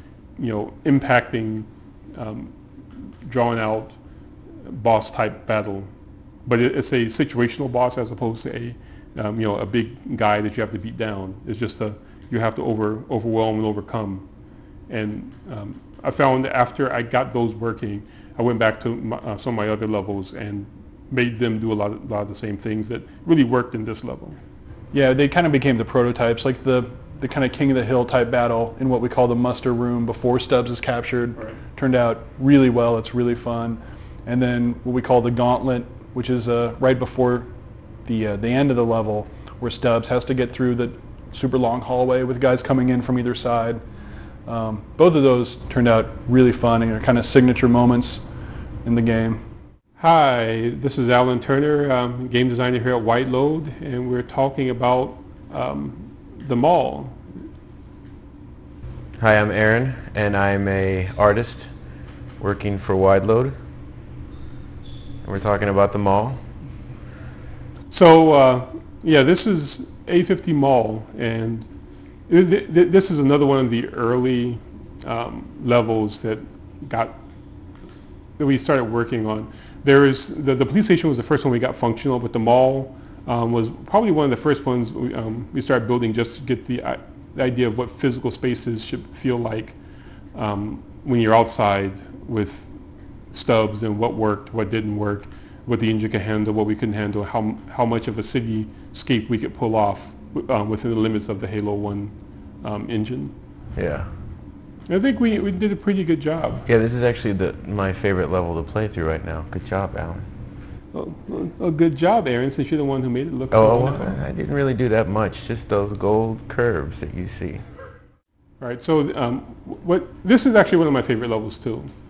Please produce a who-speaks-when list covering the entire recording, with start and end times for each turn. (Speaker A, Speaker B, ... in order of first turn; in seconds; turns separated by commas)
Speaker A: 0.4-2.5, Speaker A: 3.2-4.0, Speaker A: 4.6-5.9, Speaker A: 6.4-14.2, Speaker A: 14.9-24.4, Speaker B: 24.9-37.5, Speaker B: 38.0-43.8, Speaker B: 44.5-48.2, Speaker B: 48.8-49.4, Speaker A: 50.0-57.2, Speaker C: 59.2-61.7, Speaker C: 62.4-63.6, Speaker C: 65.2-66.4, Speaker A: 67.9-71.7, Speaker A: 72.3-77.2, Speaker A: 78.4-89.8, Speaker A: 90.3-92.7, Speaker A: 93.3-103.3, Speaker C: 103.7-104.1, Speaker A: 104.9-106.6, Speaker C: 106.6-110.3, Speaker A: 110.9-114.2, Speaker C: 113.5-117.7, Speaker A: 118.6-121.9